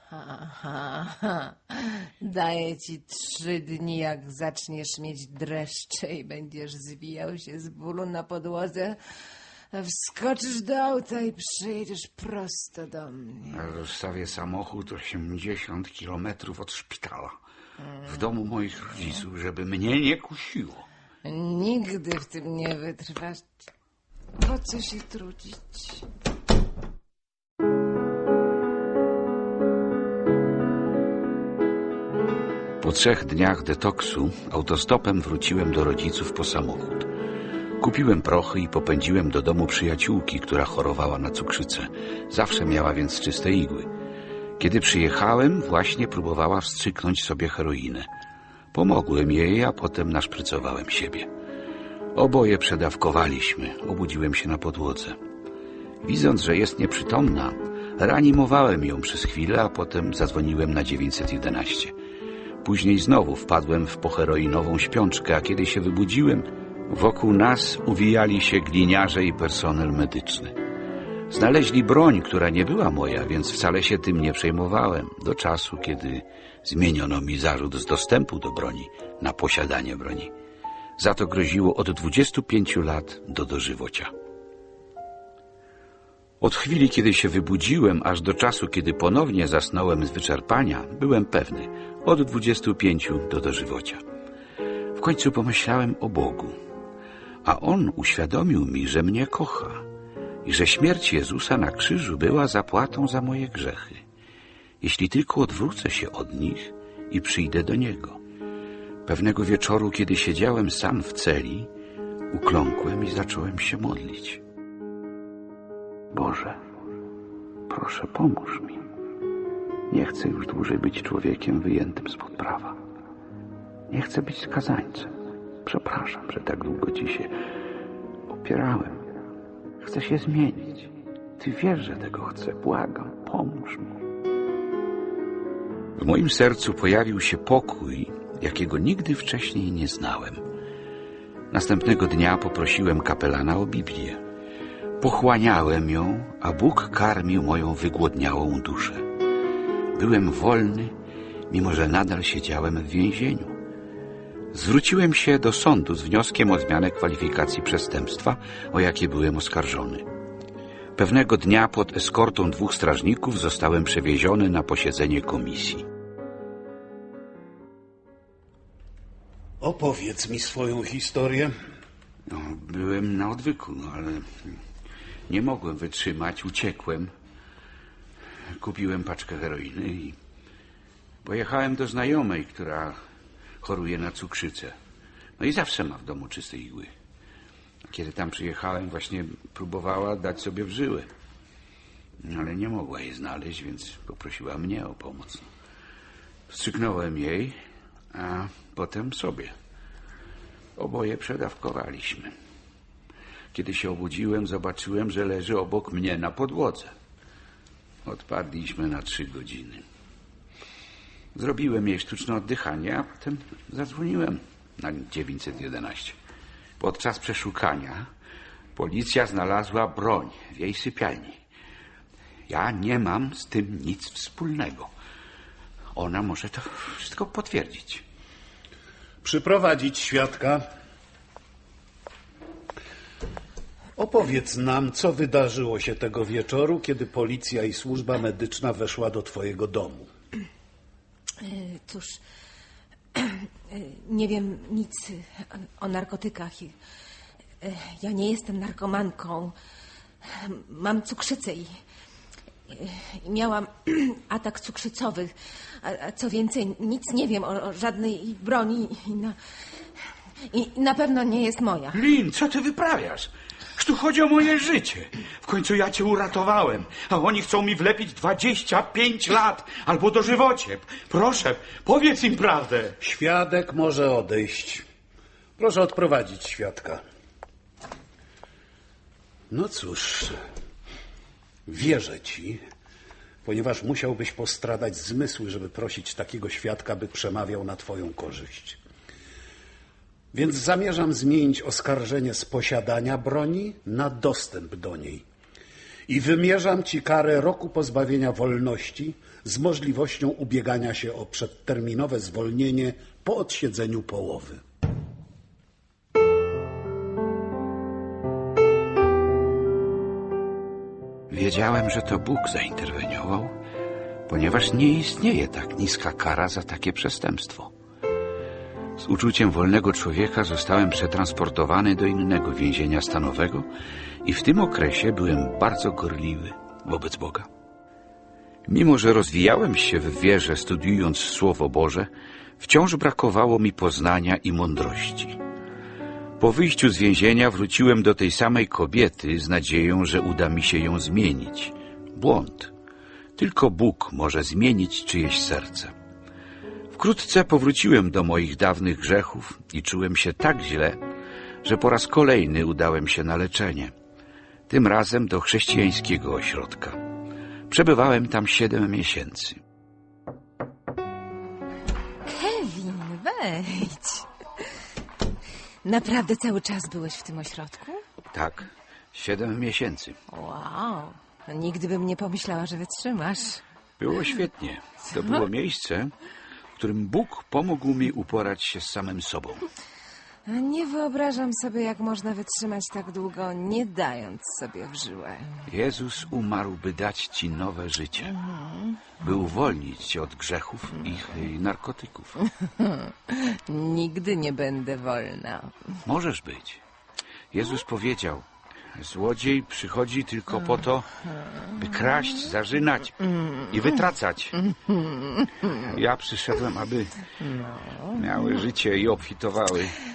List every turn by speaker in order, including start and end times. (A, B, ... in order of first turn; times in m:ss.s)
0:00.1-0:09.0 A
0:09.7-0:13.7 A
0:13.5-0:17.4 B
0:18.0-0:20.9 B
0:21.2-0:23.5 A
0:24.4-0:26.0 A
0:32.8-0:37.1 B
0:37.8-0:43.9 B
0:44.6-0:48.1 B
0:48.7-0:51.3 B
0:52.2-0:55.2 B
0:56.0-1:02.0 B
1:02.6-1:10.6 B
1:11.3-1:20.3 B
1:21.0-1:24.1 B
1:26.4-1:34.0 B
1:35.0-1:36.6 B
1:37.4-1:39.8 B
1:40.4-1:44.0 B
1:44.8-1:48.2 B
1:49.1-1:51.7 B
1:52.3-1:54.4 B
1:56.1-1:56.6 B
1:57.7-1:58.9 B
1:59.9-2:02.8 B
2:03.9-2:07.4 B
2:08.3-2:09.1 B
2:09.8-2:14.0 B
2:16.0-2:20.4 B
2:21.5-2:24.2 B
2:25.0-2:29.1 B
2:30.0-2:30.9 B
2:31.5-2:33.6 B
2:34.5-2:40.0 B
2:41.0-2:45.8 B
2:49.6-2:51.5 C
2:52.3-2:54.6 B
2:55.3-2:57.1 B
2:58.6-3:00.2 B
3:01.2-3:03.0 B
3:03.6-3:04.8 B
3:05.4-3:06.9 B
3:07.9-3:11.1 B
3:12.2-3:15.5 B
3:16.5-3:17.6 B
3:18.1-3:19.5 B
3:20.8-3:22.3 B
3:23.5-3:26.9 B
3:28.0-3:29.8 B
3:31.4-3:36.2 B
3:36.8-3:38.1 B
3:38.8-3:41.4 B
3:42.5-3:44.9 B
3:45.9-3:48.0 B
3:49.2-3:50.6 C
3:54.0-4:00.1 C
4:01.4-4:02.2 A
4:03.1-4:06.8 A
4:07.6-4:09.6 A
4:10.2-4:11.7 A
4:12.7-4:19.4 A
4:20.5-4:22.0 A
4:21.9-4:33.0 B
4:33.0-4:34.8 C
4:35.6-4:37.0 C
4:39.5-4:40.4 C
4:41.7-4:42.6 C
4:43.4-4:48.8 C
4:50.3-4:55.2 C
4:56.1-5:04.6 C
5:11.3-5:13.6 B
5:14.3-5:17.7 B
5:19.0-5:23.7 B
5:24.2-5:27.5 B
5:28.7-5:35.4 B
5:36.4-5:42.7 B
5:43.4-5:45.9 B
5:46.9-5:51.0 B
5:51.6-5:53.9 B
5:54.7-5:57.0 B
5:57.7-5:59.6 B
6:02.3-6:04.8 A
6:05.8-6:08.0 A
6:08.3-6:10.2 B
6:10.3-6:13.6 A
6:14.0-6:16.1 B
6:16.8-6:19.6 B
6:20.5-6:25.6 A
6:25.7-6:28.3 B
6:28.2-6:29.1 A
6:29.2-6:32.4 B
6:32.6-6:35.9 A
6:36.0-6:36.8 B
6:37.5-6:41.1 B
6:41.8-6:44.6 B
6:44.6-6:45.8 A
6:45.8-6:47.2 B
6:47.4-6:48.6 A
6:48.1-6:50.0 B